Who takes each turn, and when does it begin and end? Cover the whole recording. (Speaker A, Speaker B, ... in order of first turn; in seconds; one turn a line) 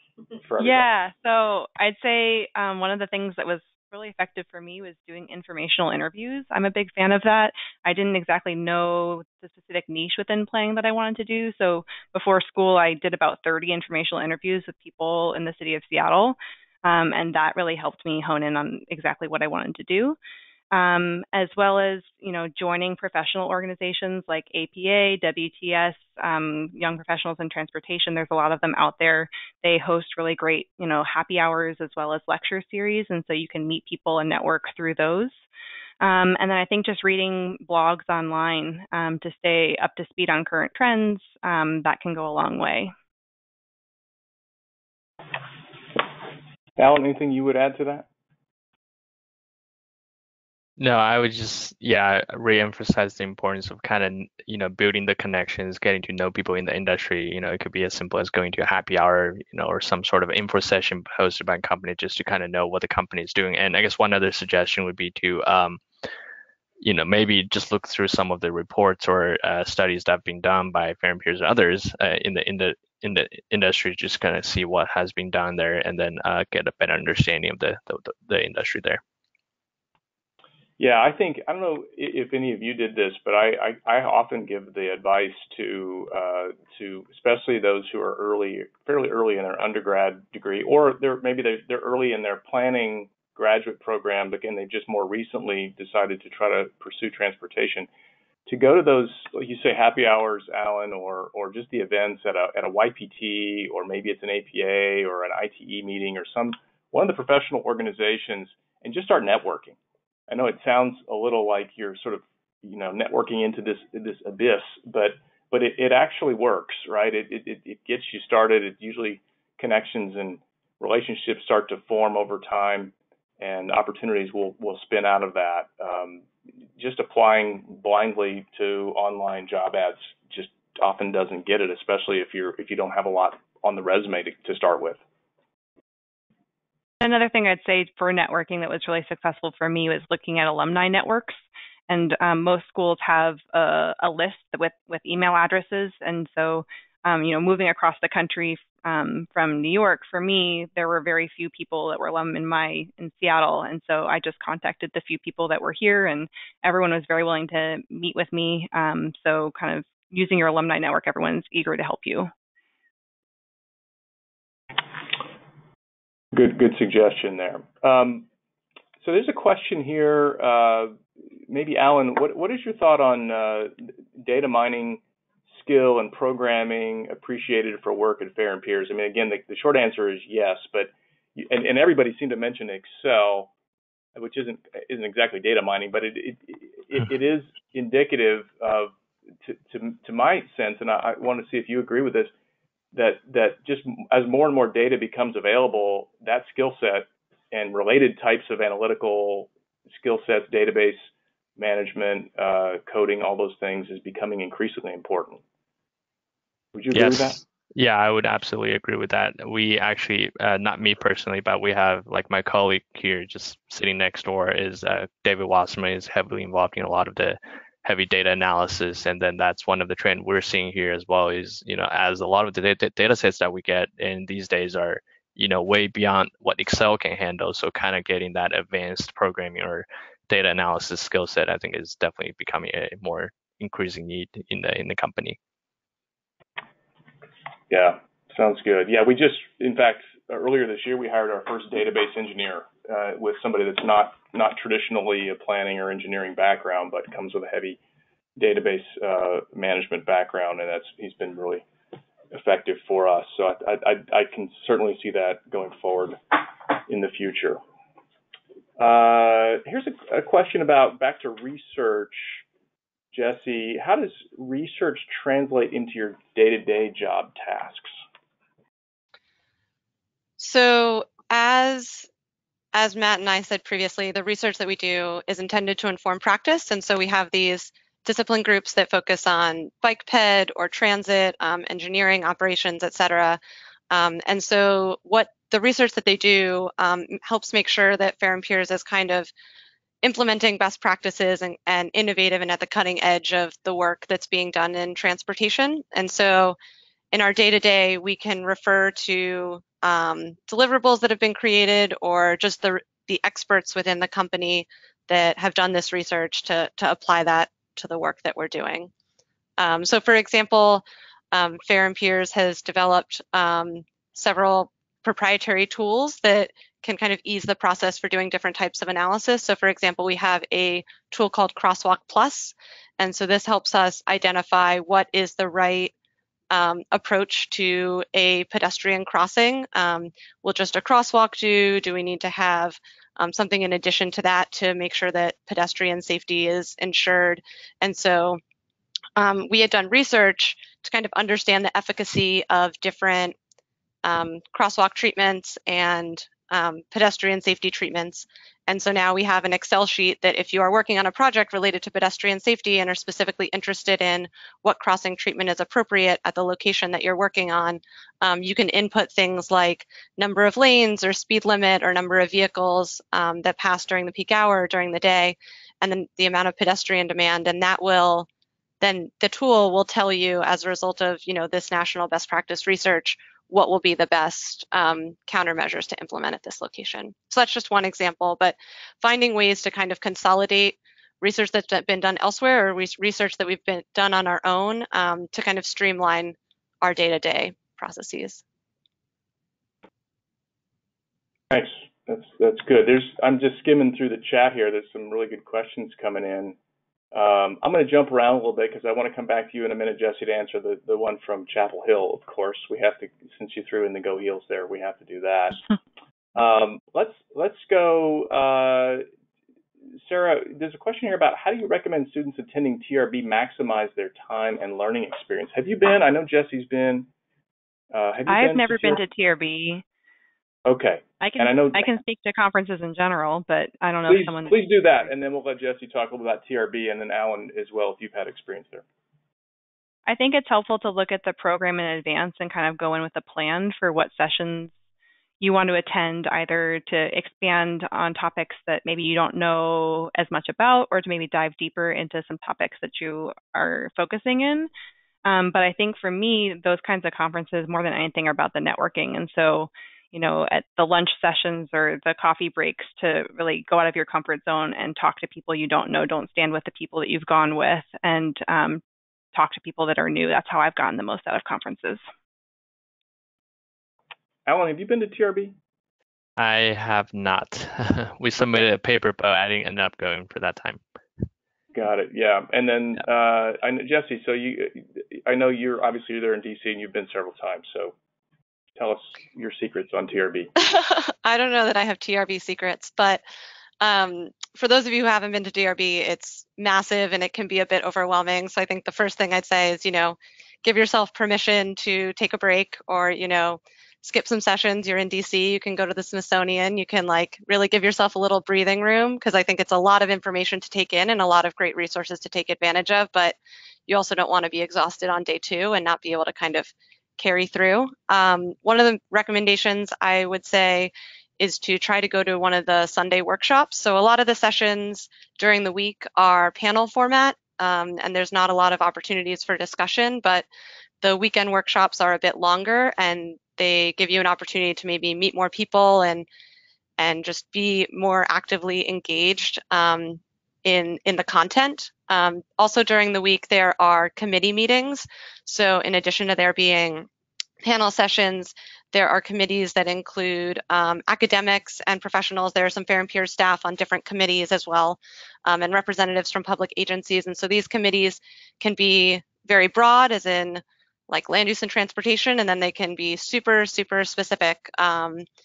Speaker A: 0.4-0.8
Speaker B: 0.6-20.2
Speaker B: 20.7-35.3
Speaker B: 36.0-42.9
Speaker A: 46.8-48.1
Speaker C: 50.8-65.8
Speaker C: 66.8-79.0
Speaker A: 80.8-97.9
Speaker A: 98.4-109.8
Speaker A: 110.3-135.0
Speaker B: 137.0-162.3
Speaker A: 166.3-168.3
Speaker A: 169.0-175.0
Speaker A: 175.5-183.5
Speaker A: 184.1-192.3
Speaker A: 192.9-205.4
Speaker A: 206.7-207.4
Speaker C: 206.9-235.4
Speaker A: 237.7-247.8
Speaker A: 248.3-251.6
Speaker A: 252.3-257.6
Speaker A: 258.8-262.4
Speaker A: 263.1-267.9
Speaker D: 270.4-272.1
Speaker D: 272.7-283.4
Speaker D: 283.9-289.3
Speaker D: 290.0-296.6
Speaker D: 297.1-308.9
Speaker D: 309.6-325.9
Speaker D: 326.5-338.4
Speaker D: 339.1-343.3
Speaker D: 344.0-368.3
Speaker D: 368.8-388.4
Speaker A: 391.5-396.6
Speaker A: 397.1-405.6
Speaker A: 406.3-409.0
Speaker A: 410.0-417.1
Speaker A: 417.9-419.0
Speaker B: 418.3-419.8
Speaker A: 420.6-421.9
Speaker B: 421.2-425.1
Speaker A: 424.1-428.8
Speaker B: 430.1-434.7
Speaker B: 435.4-444.7
Speaker B: 445.2-458.8
Speaker B: 459.3-462.0
Speaker A: 464.4-465.5
Speaker C: 466.4-470.8
Speaker A: 471.7-477.9
Speaker A: 478.8-480.5
Speaker D: 480.6-483.2
Speaker D: 483.8-520.5
Speaker D: 521.0-526.3
Speaker D: 527.0-537.1
Speaker D: 537.6-555.2